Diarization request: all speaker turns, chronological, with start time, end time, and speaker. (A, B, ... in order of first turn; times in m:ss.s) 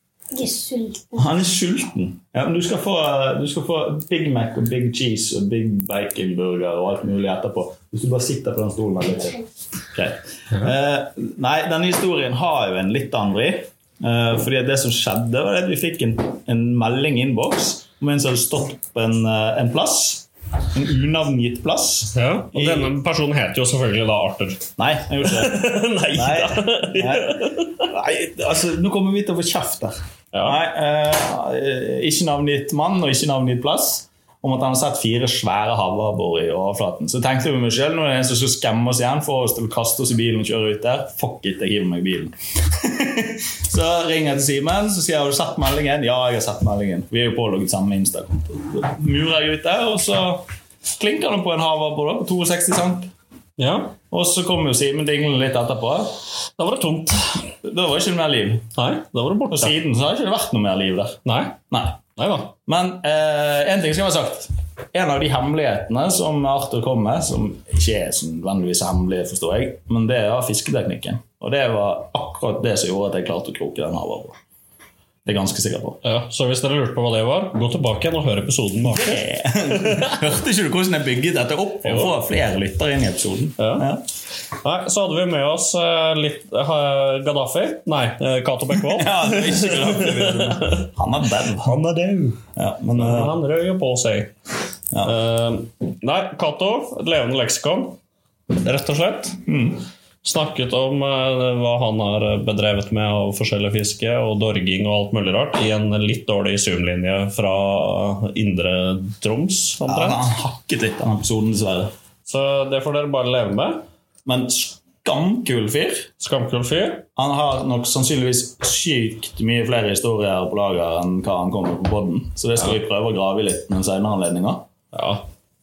0:01.1-0:22.9 A
0:22.1-0:24.7 B
0:24.8-0:50.4 A
0:25.2-0:27.9 B
0:30.3-0:30.6 B
0:51.0-0:53.1 A
0:53.6-0:54.0 B
0:54.1-0:56.1 A
0:56.6-0:57.5 B
0:57.6-0:58.7 A
0:58.7-0:59.8 B
0:59.5-1:02.0 A
1:01.2-1:01.6 B
1:02.2-1:02.6 B
1:02.7-1:14.4 A
1:15.3-1:16.0 A
1:16.0-1:20.2 B
1:18.9-1:24.0 A
1:21.8-1:22.1 B
1:23.6-1:23.9 B
1:24.6-1:30.6 B
1:28.9-1:31.8 A
1:31.6-1:32.4 B
1:32.6-1:33.4 A
1:33.0-1:34.3 B
1:34.9-1:35.2 A
1:35.0-1:38.0 B
1:38.5-1:39.4 B
1:39.5-1:39.8 A
1:40.2-1:50.2 B
1:49.9-1:51.9 A
1:52.3-1:53.8 B
1:54.3-1:56.1 A
1:56.2-1:57.1 B
1:57.2-2:04.7 A
2:04.9-2:05.3 B